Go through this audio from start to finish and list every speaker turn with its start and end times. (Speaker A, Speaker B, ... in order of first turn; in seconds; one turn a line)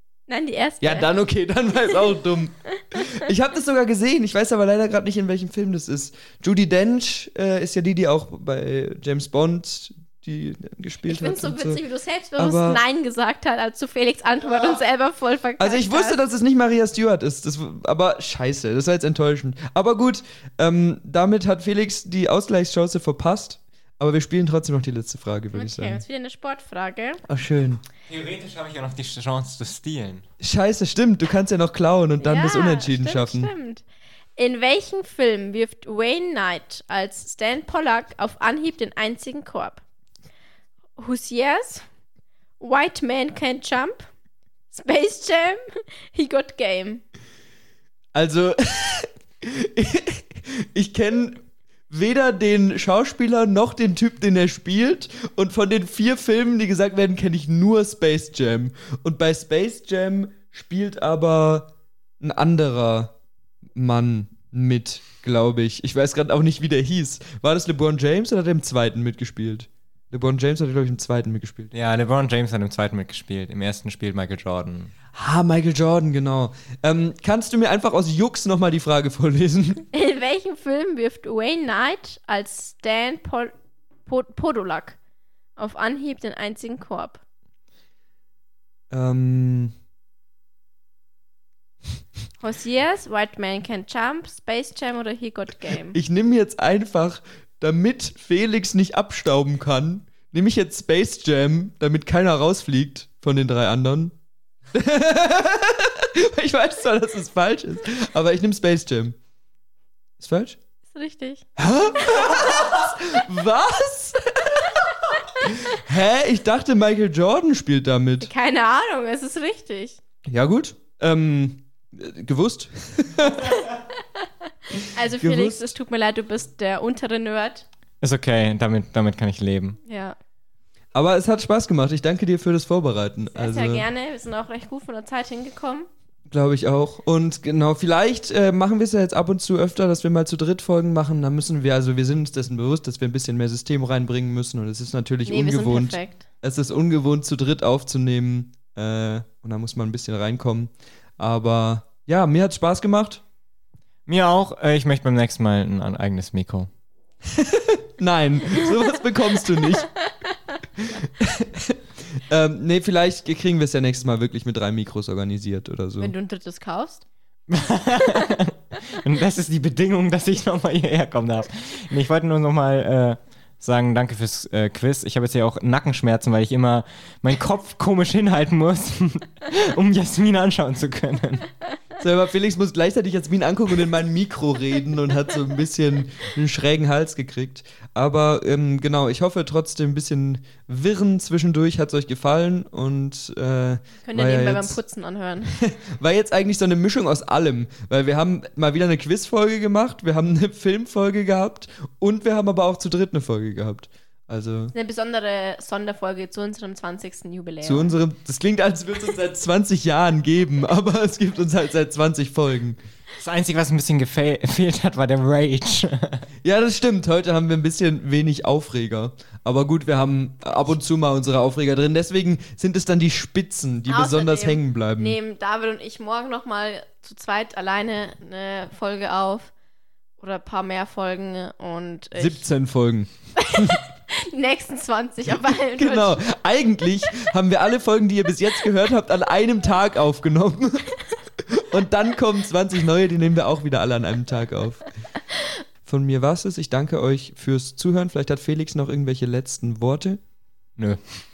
Speaker A: 0.3-1.2
Speaker B: 0.8-11.8
Speaker A: 11.1-16.2
Speaker B: 12.4-12.8
Speaker B: 15.6-26.0
Speaker A: 25.5-27.2
Speaker B: 27.2-27.8
Speaker C: 28.1-30.2
Speaker B: 30.4-33.5
Speaker A: 32.2-33.9
Speaker A: 34.4-39.8
Speaker A: 41.0-41.8
Speaker A: 42.6-44.1
Speaker A: 44.7-45.6
Speaker A: 46.1-47.0
Speaker B: 48.1-63.1
Speaker B: 63.8-71.7
Speaker C: 71.7-74.9
Speaker B: 75.1-79.8
Speaker A: 79.9-83.5
Speaker A: 84.1-85.0
Speaker A: 85.6-87.2
Speaker B: 88.9-89.7
Speaker A: 92.4-96.0
Speaker B: 95.9-104.1
Speaker B: 104.7-109.2
Speaker B: 110.2-110.6
Speaker A: 110.9-111.5
Speaker B: 111.6-114.9
Speaker B: 115.4-118.3
Speaker A: 118.2-120.0
Speaker B: 120.3-123.6
Speaker A: 124.7-127.7
Speaker B: 125.1-125.7
Speaker C: 128.0-129.8
Speaker A: 129.8-130.2
Speaker B: 130.9-133.9
Speaker A: 133.3-135.9
Speaker B: 136.3-153.2
Speaker A: 145.3-146.2
Speaker C: 154.1-156.7
Speaker B: 157.3-159.9
Speaker B: 160.8-166.1
Speaker A: 166.0-167.1
Speaker C: 167.5-181.5
Speaker B: 182.0-194.8
Speaker A: 194.1-195.6
Speaker B: 195.6-204.7
Speaker A: 204.7-207.9
Speaker B: 207.6-212.8
Speaker C: 213.2-216.3
Speaker B: 216.4-225.2
Speaker A: 223.9-229.5
Speaker A: 230.2-232.4
Speaker B: 232.2-233.8
Speaker A: 233.4-236.2
Speaker B: 235.8-244.8
Speaker B: 245.9-250.2